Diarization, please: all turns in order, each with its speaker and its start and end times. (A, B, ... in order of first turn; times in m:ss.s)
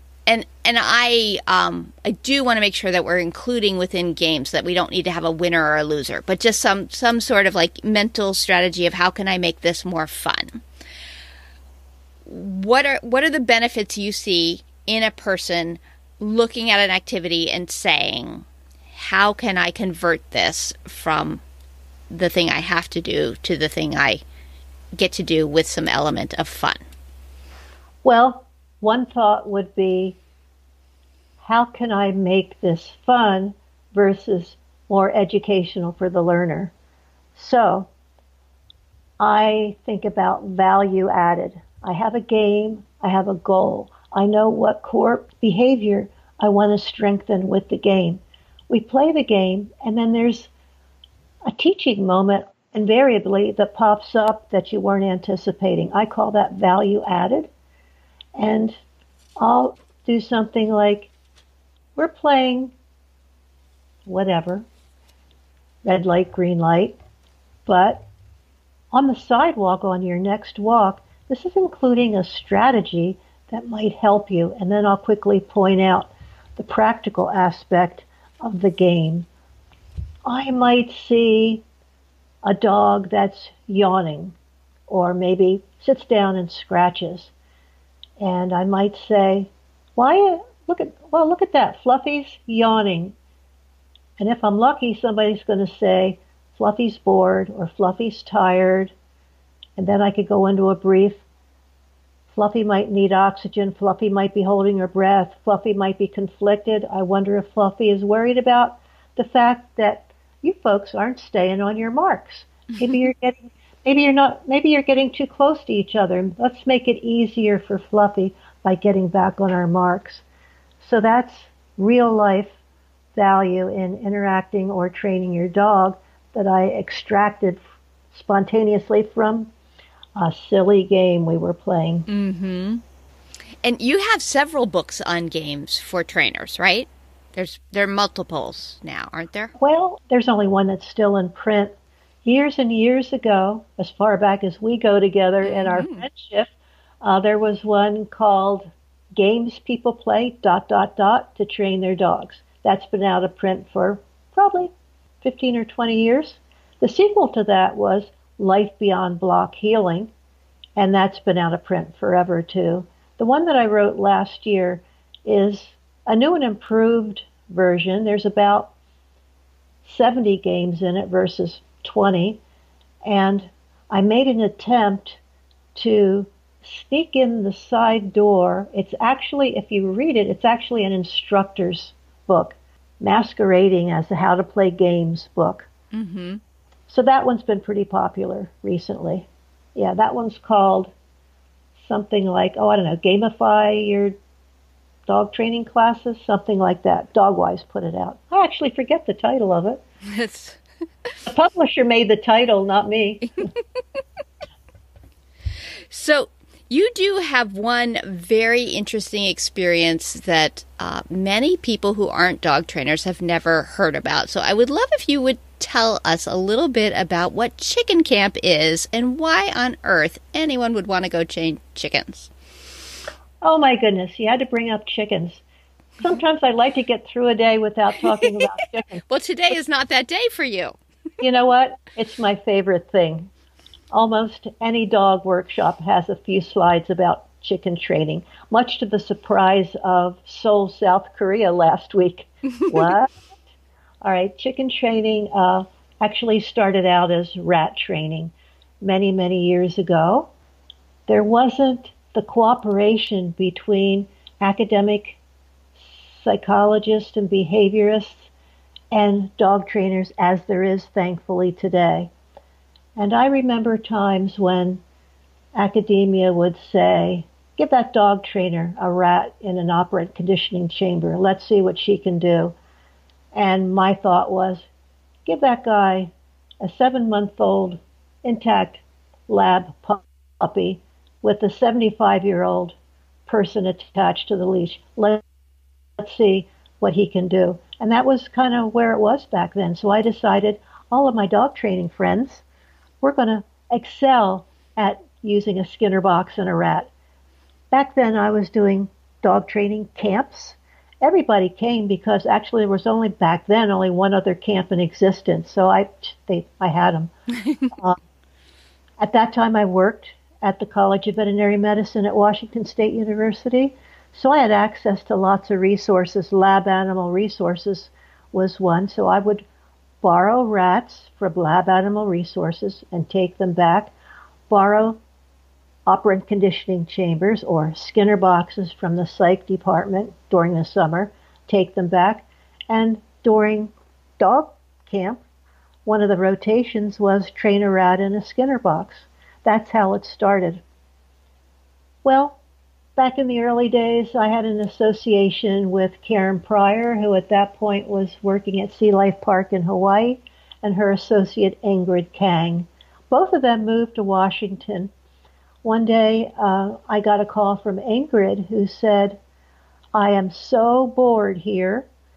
0:00.3-0:10.6 A
0:12.2-0:21.4 A
0:22.1-0:24.2 A
0:25.0-0:26.8 A
0:28.0-0:30.2 B
0:31.4-0:36.7 B
0:37.3-0:37.9 B
0:39.2-0:50.5 B
0:51.4-0:57.5 B
0:58.4-0:58.8 B
0:59.4-1:01.1 B
1:02.0-1:02.7 B
1:04.0-1:04.6 B
1:05.8-1:07.0 B
1:07.7-1:08.0 B
1:08.9-1:19.3 B
1:20.2-1:21.6 B
1:22.4-1:24.4 B
1:24.9-1:27.3 B
1:28.2-1:33.1 B
1:34.2-1:38.9 B
1:39.8-1:41.2 B
1:42.3-2:00.2 B
2:00.8-2:02.6 B
2:03.1-2:07.6 B
2:08.1-2:09.5 B
2:10.2-2:12.0 B
2:12.1-2:12.8 A
2:13.6-2:19.5 A
2:19.6-2:34.7 B
2:25.4-2:26.1 A
2:35.2-2:40.1 B
2:40.8-2:48.7 B
2:49.8-2:52.4 B
2:53.0-2:55.2 B
2:55.7-3:05.7 B
3:05.9-3:06.4 A
3:06.9-3:10.9 B
3:11.8-3:14.1 B
3:15.1-3:19.8 B
3:20.0-3:20.6 A
3:21.2-3:23.4 B
3:25.9-3:42.3 A
3:43.4-3:45.4 B
3:46.0-3:49.0 B
3:49.1-3:50.8 A
3:51.2-3:53.3 B
3:53.9-4:03.1 B
4:04.0-4:10.3 B
4:11.1-4:15.2 B
4:15.8-4:18.3 B
4:18.9-4:22.1 B
4:23.0-4:24.8 B
4:25.5-4:32.5 B
4:33.3-4:34.6 B
4:35.2-4:45.2 B
4:46.0-4:52.4 B
4:53.0-4:56.9 B
4:57.7-5:07.1 B
5:07.7-5:08.0 B
5:09.0-5:19.4 B
5:20.0-5:23.9 B
5:24.5-5:25.0 B
5:25.9-5:35.2 B
5:35.8-5:40.6 B
5:42.0-5:42.4 B
5:43.0-5:54.9 B
5:55.6-5:59.2 B
5:59.9-6:01.9 B